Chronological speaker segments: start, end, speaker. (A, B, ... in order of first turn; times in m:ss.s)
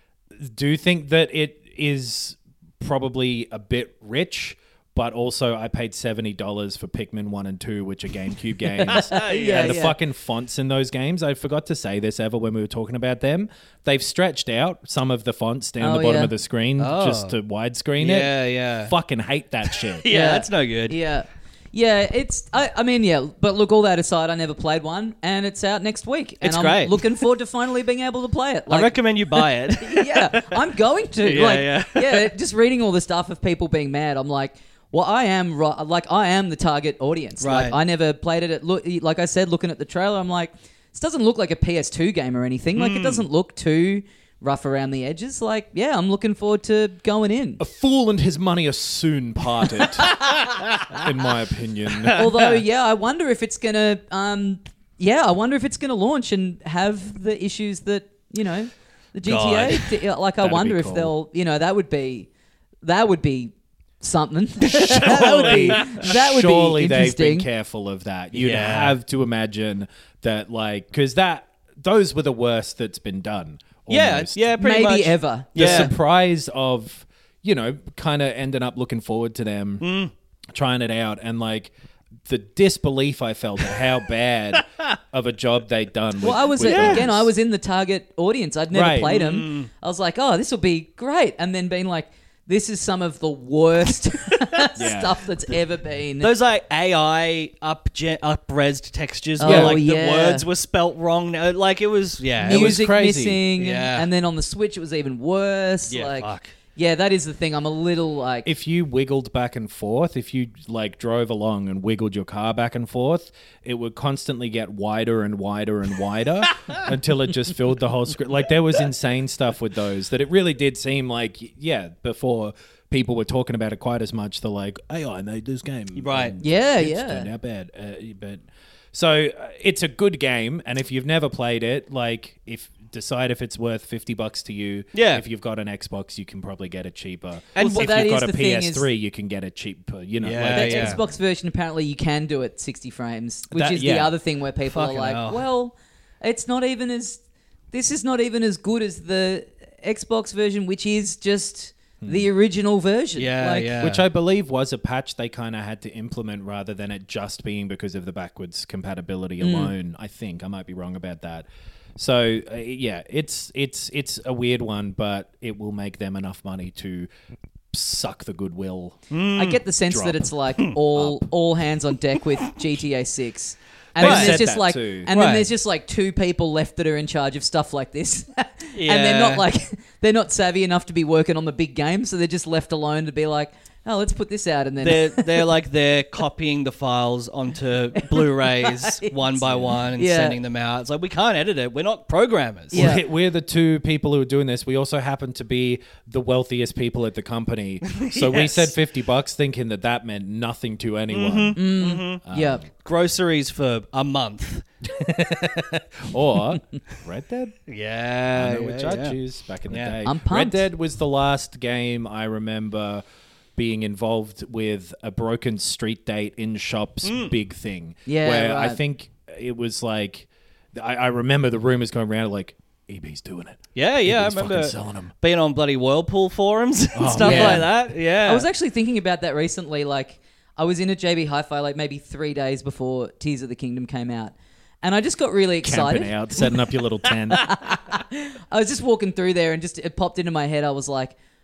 0:00.4-0:20.0 A
0:08.8-0:09.8 B
0:09.0-0:09.9 C
0:15.8-0:16.3 C
0:16.8-0:17.4 B
0:18.0-0:18.9 B
0:19.7-0:21.0 B
0:20.1-0:47.6 C
0:26.4-0:27.2 B
0:28.7-0:30.7 B
0:31.2-0:32.3 B
0:37.4-0:37.8 B
0:42.8-0:43.2 B
0:47.6-0:50.2 A
0:50.3-0:51.0 B
0:50.9-0:52.2 A
0:52.0-0:52.6 B
0:52.1-1:02.3 C
0:59.2-1:00.0 B
1:00.4-1:01.1 A
1:02.8-1:07.5 C
1:04.8-1:14.5 A
1:04.9-1:06.1 B
1:08.3-1:09.0 B
1:13.9-1:15.9 B
1:14.6-1:15.9 C
1:15.6-1:19.8 A
1:19.8-1:20.1 B
1:20.5-1:21.7 A
1:22.3-1:27.3 A
1:26.2-1:36.3 C
1:26.6-1:27.0 B
1:28.7-1:29.2 A
1:29.0-1:29.7 B
1:34.8-1:35.2 A
1:36.2-1:42.8 B
1:39.4-1:40.4 C
1:39.4-1:39.8 A
1:42.4-1:43.4 A
1:42.4-1:48.5 C
1:43.6-1:44.1 B
1:45.9-1:46.5 B
1:48.4-2:21.0 A
2:06.0-2:06.4 B
2:06.4-2:07.3 C
2:14.9-2:15.2 B
2:17.5-2:18.0 B
2:17.6-2:18.9 C
2:20.2-2:21.0 B
2:20.5-2:27.2 C
2:23.5-2:24.1 A
2:24.6-2:25.4 B
2:27.7-2:33.8 C
2:32.0-2:32.3 A
2:33.2-2:34.0 B
2:33.8-2:47.1 A
2:39.4-2:39.7 C
2:47.7-2:49.0 A
2:49.1-2:49.6 B
2:49.4-3:05.5 C
2:49.9-2:50.3 A
2:50.9-2:51.2 A
2:54.0-2:55.1 A
2:54.0-2:54.4 B
2:55.1-2:55.5 B
2:58.7-2:59.4 B
3:04.8-3:12.9 B
3:08.0-3:10.4 C
3:09.4-3:09.8 A
3:12.7-3:13.0 C
3:12.7-3:22.6 A
3:17.9-3:18.7 B
3:21.1-3:22.2 B
3:21.6-3:22.6 C
3:22.7-3:24.6 B
3:24.8-3:27.6 A
3:27.7-3:29.2 B
3:28.3-3:33.0 A
3:29.7-3:30.0 B
3:30.0-3:30.7 C
3:33.6-3:45.1 A
3:37.0-3:37.3 B
3:38.0-3:38.8 C
3:43.8-3:48.5 B
3:46.9-3:47.7 A
3:47.2-3:56.2 C
3:55.6-3:57.5 A
3:57.3-4:01.1 C